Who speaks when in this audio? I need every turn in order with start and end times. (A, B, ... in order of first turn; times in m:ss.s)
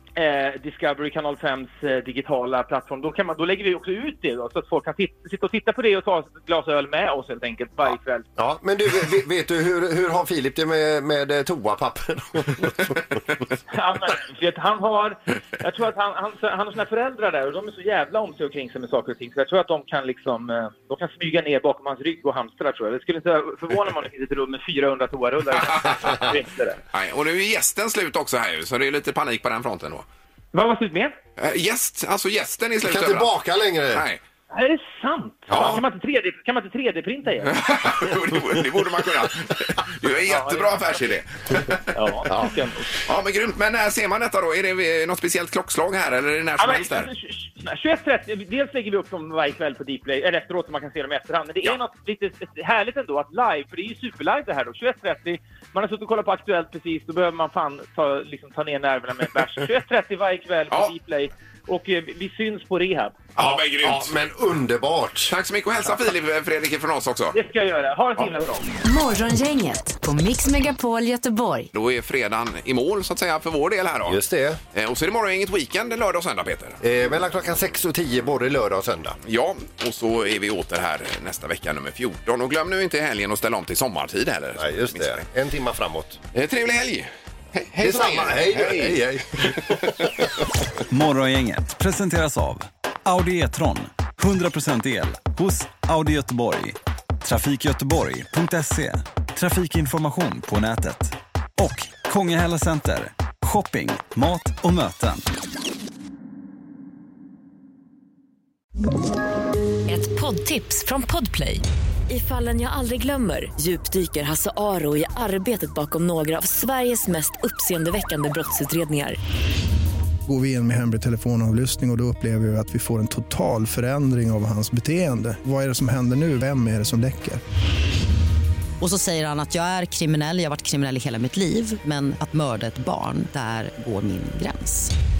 0:00.2-0:08.2 A
0:08.4-0:13.0 B
0:13.7-0:26.8 A
0:26.9-0:30.0 C
0:30.5-0:31.1 A
0:31.4-0:33.3 C
0:32.8-0:34.0 B
0:33.9-0:34.2 C
0:34.5-0:37.5 A
0:35.5-0:35.8 C
0:35.5-0:35.8 B
0:37.4-0:42.1 C
0:40.2-0:40.8 A
0:41.9-0:42.8 A
0:43.0-0:47.1 C
0:46.6-1:03.2 A
1:03.4-1:04.1 C
1:03.4-1:05.3 B
1:05.3-1:07.4 C
1:07.3-1:08.7 A
1:08.8-1:11.7 D
1:11.7-1:14.2 C
1:14.1-1:14.6 B
1:14.7-1:16.8 C
1:16.8-1:19.2 B
1:19.2-1:25.2 C
1:24.6-1:26.2 B
1:26.3-1:29.7 C
1:27.8-1:30.1 B
1:30.9-1:45.2 E
1:49.9-1:51.6 F
1:52.1-1:59.1 F
2:00.2-2:07.4 G
2:08.8-2:14.9 H